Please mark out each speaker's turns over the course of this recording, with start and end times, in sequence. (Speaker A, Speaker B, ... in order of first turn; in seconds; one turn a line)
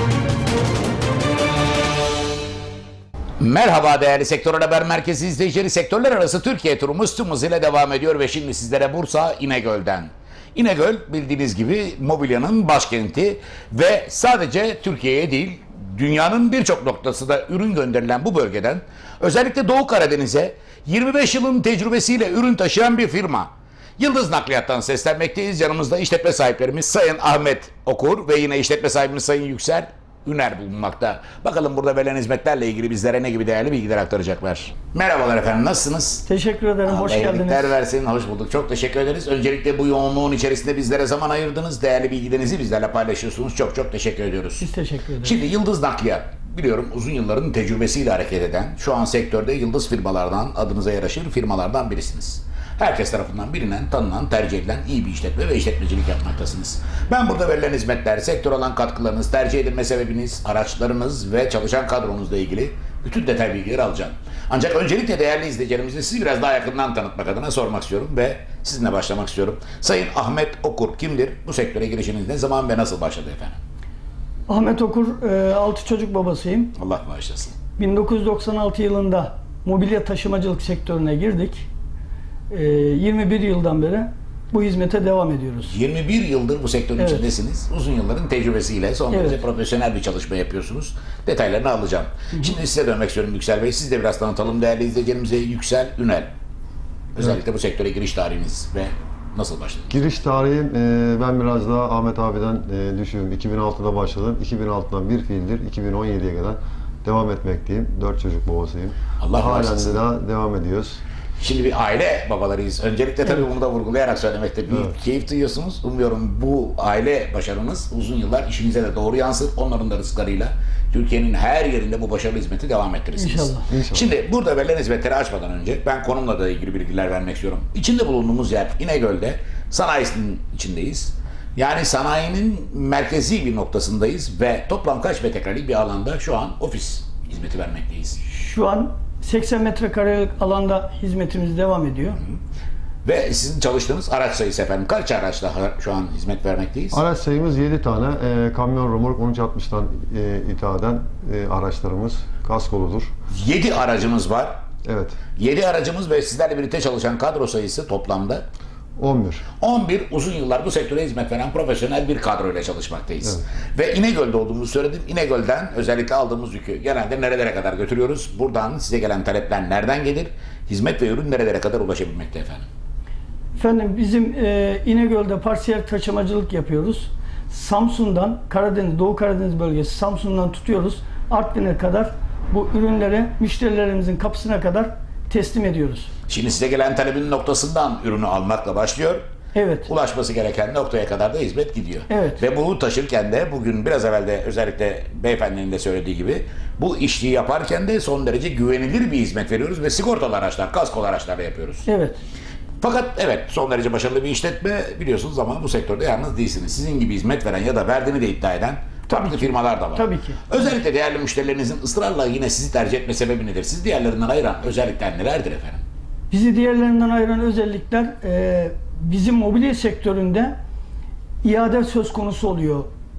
Speaker A: 3.4-36.2
Speaker B: 36.3-37.8
Speaker A: 36.9-44.7
Speaker B: 44.6-45.4
Speaker A: 45.2-73.6
Speaker B: 74.5-76.7
Speaker A: 76.8-77.6
Speaker B: 77.8-81.7
Speaker B: 82.5-85.8
Speaker A: 85.7-96.3
Speaker B: 87.0-87.3
Speaker B: 89.1-89.4
Speaker A: 97.2-99.9
Speaker C: 99.9-111.0
Speaker A: 109.2-110.0
Speaker A: 111.4-138.2
Speaker C: 114.7-115.0
Speaker B: 123.2-123.7
Speaker C: 123.7-124.1
Speaker B: 138.2-142.2
Speaker A: 143.1-147.0
Speaker C: 146.9-153.1
Speaker A: 153.3-154.6
Speaker C: 154.8-155.2
Speaker A: 155.4-158.4
Speaker C: 159.0-159.4
Speaker A: 159.6-172.7
Speaker B: 173.6-186.1
Speaker A: 186.3-189.2
Speaker B: 189.5-189.9
Speaker A: 189.9-201.9
Speaker B: 192.1-192.4
Speaker B: 201.9-202.2
Speaker A: 202.8-215.8
Speaker B: 209.1-210.7
Speaker B: 216.3-220.6
Speaker B: 221.4-222.9